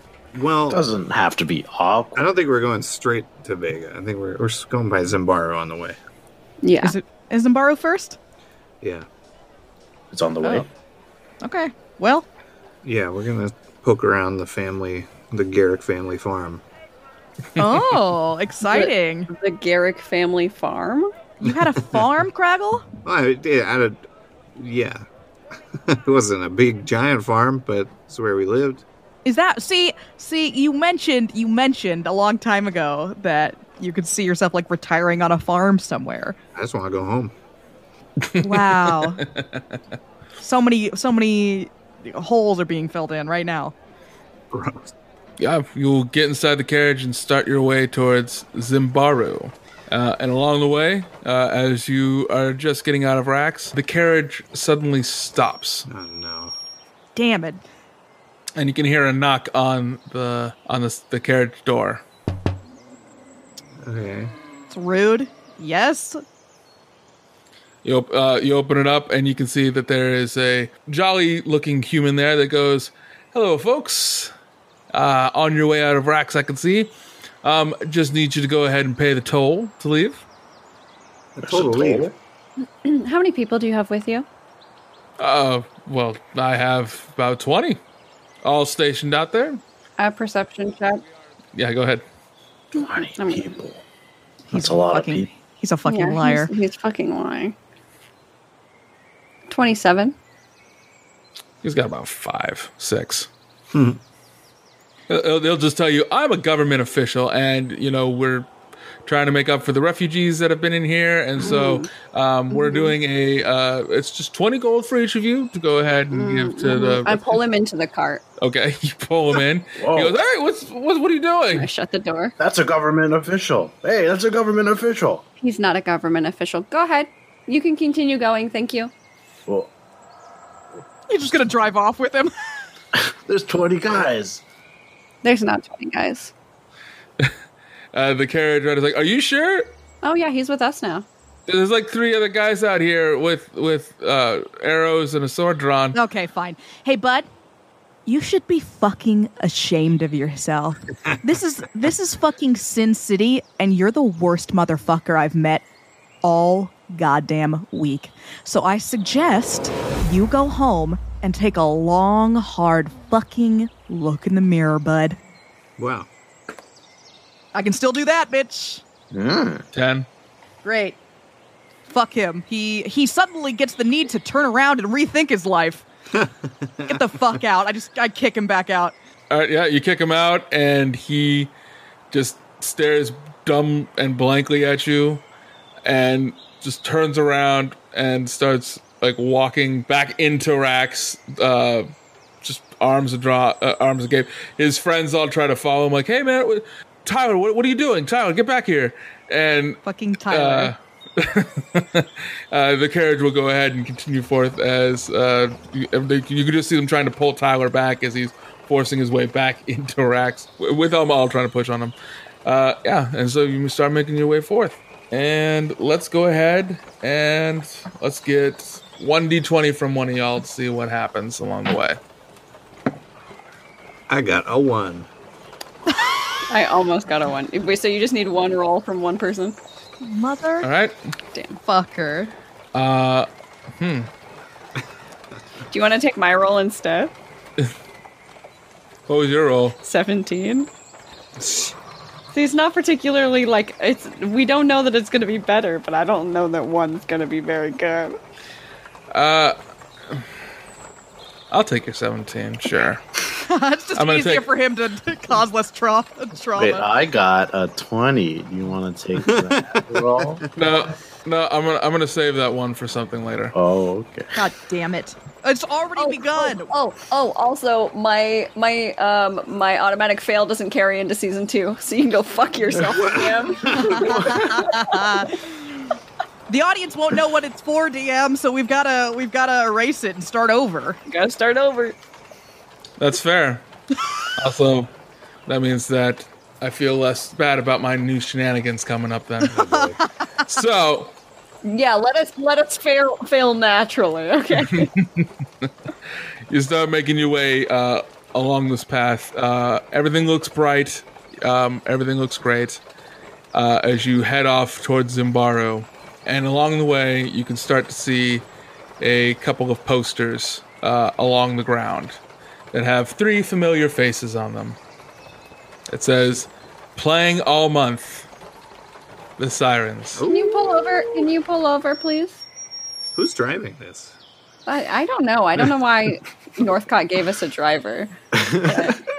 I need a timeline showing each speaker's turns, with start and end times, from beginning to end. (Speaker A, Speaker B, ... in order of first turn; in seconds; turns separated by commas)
Speaker A: 0.3-0.8, Speaker B: 0.7-2.3, Speaker A: 2.1-6.0, Speaker C: 6.6-6.9, Speaker D: 6.8-8.2, Speaker A: 8.8-9.1, Speaker B: 10.1-10.7, Speaker D: 11.4-12.2, Speaker A: 12.8-16.6, Speaker D: 17.6-19.3, Speaker C: 18.7-21.1, Speaker D: 21.4-22.9, Speaker A: 21.4-22.0, Speaker A: 23.0-24.0, Speaker A: 24.6-25.0, Speaker A: 25.7-28.8, Speaker D: 29.2-36.4, Speaker A: 36.5-37.3, Speaker E: 38.2-39.6, Speaker D: 38.4-39.2, Speaker D: 40.4-43.7, Speaker A: 44.5-44.9, Speaker E: 45.4-55.9, Speaker A: 55.9-56.5, Speaker D: 57.1-57.6, Speaker E: 58.6-62.0, Speaker A: 63.8-64.3, Speaker D: 64.7-66.2, Speaker E: 67.8-74.3, Speaker E: 74.9-76.9, Speaker E: 77.4-80.2, Speaker A: 81.3-82.1, Speaker B: 81.4-82.1, Speaker C: 82.8-84.2, Speaker E: 85.2-87.8, Speaker E: 88.4-89.6, Speaker C: 90.0-91.0, Speaker E: 91.5-92.0, Speaker B: 92.7-93.8, Speaker C: 92.8-93.5, Speaker D: 94.5-96.5, Speaker B: 94.5-95.3, Speaker C: 95.8-97.6, Speaker C: 99.5-100.1, Speaker E: 101.6-103.3, Speaker A: 103.7-104.0, Speaker E: 105.1-108.5, Speaker E: 109.0-117.4, Speaker C: 111.4-111.9, Speaker C: 112.5-112.9, Speaker C: 116.1-118.2, Speaker E: 118.4-121.7, Speaker B: 119.8-120.2, Speaker C: 121.5-122.3, Speaker B: 122.4-125.2, Speaker C: 125.4-128.9, Speaker D: 131.1-132.3, Speaker B: 132.9-134.4, Speaker C: 135.2-136.3, Speaker E: 137.9-139.7, Speaker C: 140.0-141.1, Speaker E: 141.5-146.0, Speaker D: 145.9-147.3, Speaker D: 148.1-155.6, Speaker D: 156.2-165.2, Speaker A: 165.8-166.1, Speaker D: 167.5-168.8, Speaker B: 169.1-169.7, Speaker E: 169.7-170.1, Speaker D: 170.6-171.0, Speaker D: 171.9-175.8, Speaker A: 176.1-177.1, Speaker D: 176.9-178.9, Speaker E: 179.3-181.5, Speaker E: 182.1-185.2, Speaker E: 185.8-191.9, Speaker E: 192.4-211.9, Speaker D: 199.8-200.7, Speaker E: 212.4-222.0, Speaker A: 224.1-225.1, Speaker C: 226.5-229.6, Speaker D: 230.0-230.7, Speaker E: 230.6-230.9, Speaker D: 231.6-232.3, Speaker E: 232.7-234.1, Speaker C: 235.7-237.1, Speaker E: 239.1-239.8, Speaker C: 239.8-240.7, Speaker A: 241.4-241.7, Speaker C: 242.3-248.2, Speaker E: 249.1-249.6, Speaker E: 251.5-253.0, Speaker D: 253.4-256.9, Speaker E: 254.0-254.4, Speaker B: 256.6-260.4, Speaker A: 259.2-260.5, Speaker E: 260.6-263.5, Speaker B: 263.5-264.3, Speaker D: 264.4-266.7, Speaker C: 266.0-275.3, Speaker B: 272.9-273.2, Speaker A: 272.9-274.1, Speaker B: 274.0-274.4, Speaker D: 274.2-275.4, Speaker D: 276.5-281.0, Speaker C: 281.1-281.9, Speaker E: 283.0-283.6, Speaker E: 284.4-284.9, Speaker E: 285.5-289.6, Speaker A: 289.5-290.0, Speaker E: 290.4-291.1, Speaker C: 291.6-294.9, Speaker E: 294.7-295.3, Speaker E: 296.5-302.8, Speaker E: 303.5-308.4, Speaker E: 309.0-312.2, Speaker E: 312.7-314.8, Speaker E: 315.9-318.3, Speaker E: 319.4-320.2, Speaker A: 320.1-321.2, Speaker C: 320.2-322.4, Speaker A: 323.1-324.1, Speaker C: 324.7-328.1, Speaker B: 328.3-328.9, Speaker C: 328.6-329.0